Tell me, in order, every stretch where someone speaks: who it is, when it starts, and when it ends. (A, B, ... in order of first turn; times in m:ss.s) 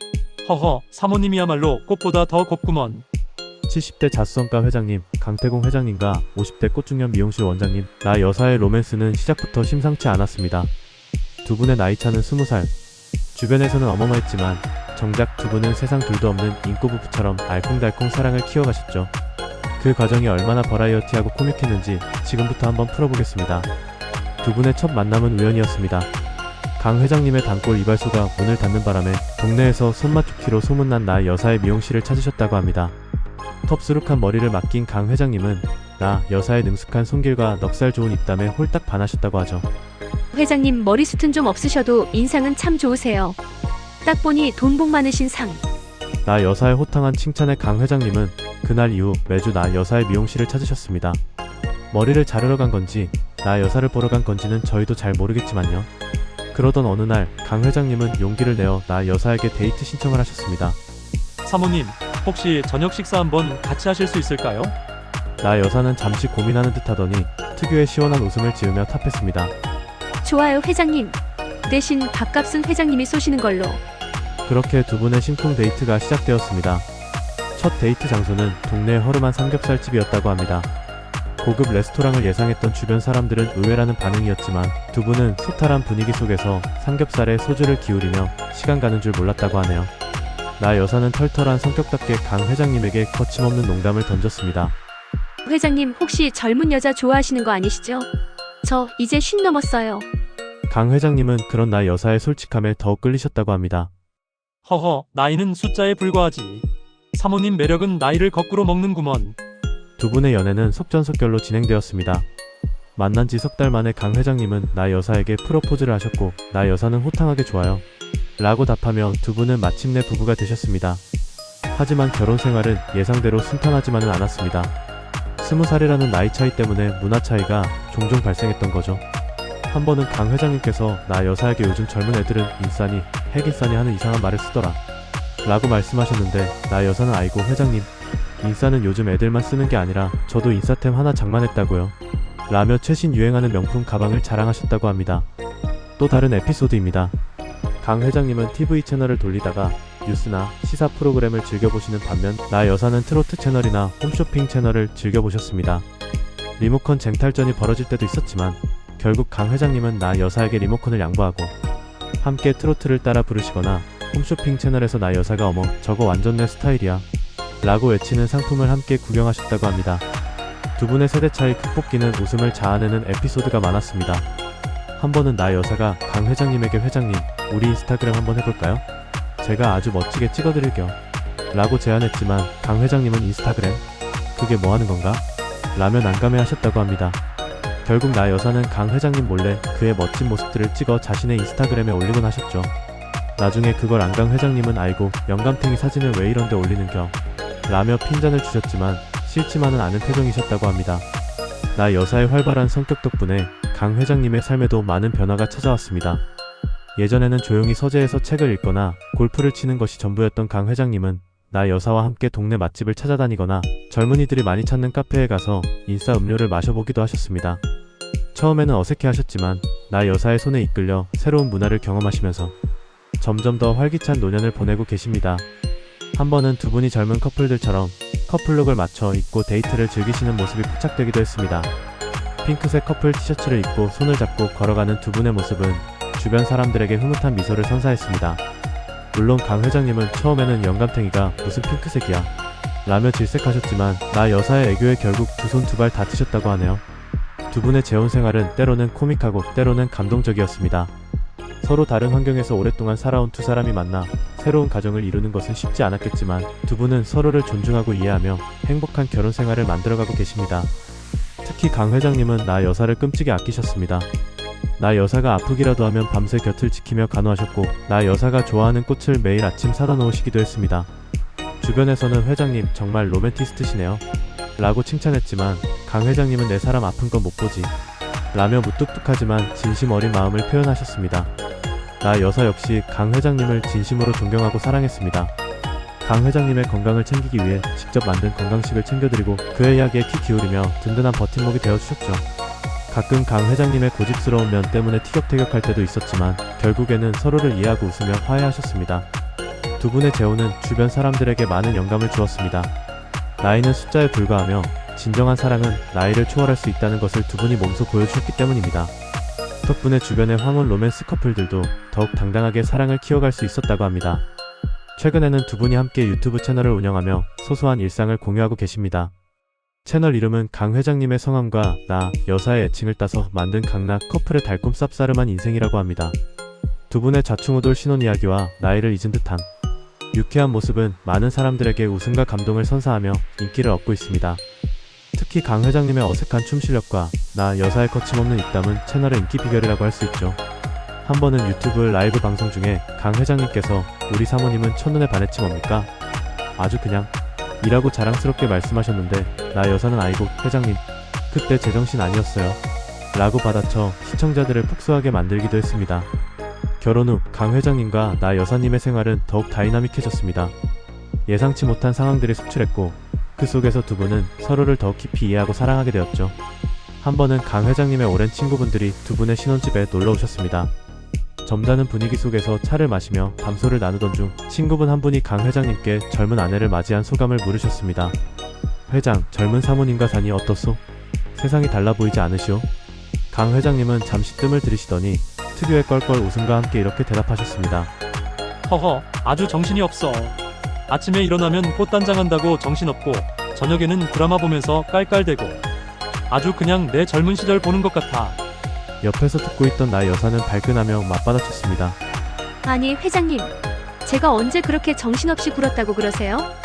0:00.4-0:03.0 A
0:03.7-0:10.7 B
0:11.4-0:12.7 B
0:13.3-0:19.1 B
0:19.8-0:23.7 B
0:24.4-0:26.1 B
0:26.8-0:32.9 B
0:33.6-0:39.7 B
0:40.3-0:43.4 C
0:44.0-0:45.6 C
0:46.2-0:51.2 B
0:51.9-0:55.9 B
0:56.5-1:00.8 B
1:01.4-1:04.7 A
1:05.4-1:09.5 B
1:10.2-1:13.8 C
1:14.4-1:16.9 B
1:17.5-1:20.7 B
1:21.4-1:29.9 B
1:30.6-1:34.8 B
1:35.4-1:38.1 C
1:38.6-1:40.0 C
1:40.7-1:43.9 B
1:44.6-1:49.4 A
1:50.0-1:52.3 B
1:53.0-1:57.8 B
1:58.4-2:01.0 B
2:01.7-2:04.7 B
2:05.4-2:09.0 B
2:09.7-2:14.8 B
2:15.4-2:22.0 B
2:22.5-2:25.3 B
2:26.0-2:27.2 B
2:27.8-2:35.8 B
2:36.6-2:41.5 B
2:42.2-2:47.0 B
2:47.6-2:50.0 B
2:50.8-2:54.3 B
2:55.0-2:58.8 B
2:59.4-3:01.0 B
3:01.5-3:03.8 B
3:04.3-3:07.2 B
3:07.8-3:12.7 B
3:13.4-3:17.2 B
3:17.7-3:21.1 B
3:21.7-3:26.2 B
3:27.0-3:37.6 B
3:38.3-3:42.5 B
3:43.2-3:45.5 B
3:46.1-3:51.7 B
3:52.4-3:58.4 B
3:59.1-4:02.3 B
4:02.8-4:06.8 B
4:07.5-4:10.9 B
4:11.6-4:20.7 B
4:21.4-4:24.1 B
4:24.8-4:30.9 B
4:31.6-4:34.0 B
4:34.6-4:37.7 B
4:38.3-4:41.3 B
4:42.0-4:45.3 B
4:46.0-4:52.2 B
4:52.9-4:59.1 B
4:59.8-5:02.7 B
5:03.4-5:08.9 B
5:09.6-5:14.2 B
5:15.0-5:19.1 B
5:19.8-5:26.2 B
5:26.9-5:29.5 B
5:30.1-5:34.4 B
5:35.1-5:40.4 B
5:41.0-5:45.9 B
5:46.6-5:52.6 B
5:53.1-5:56.1 B
5:56.8-6:00.5 B
6:01.3-6:06.4 B
6:07.0-6:10.7 B
6:11.4-6:18.2 B
6:18.9-6:20.8 B
6:21.3-6:22.7 B
6:23.3-6:27.9 B
6:28.6-6:30.4 A
6:30.9-6:35.6 A
6:36.3-6:38.4 A
6:39.0-6:42.0 B
6:42.6-6:46.5 C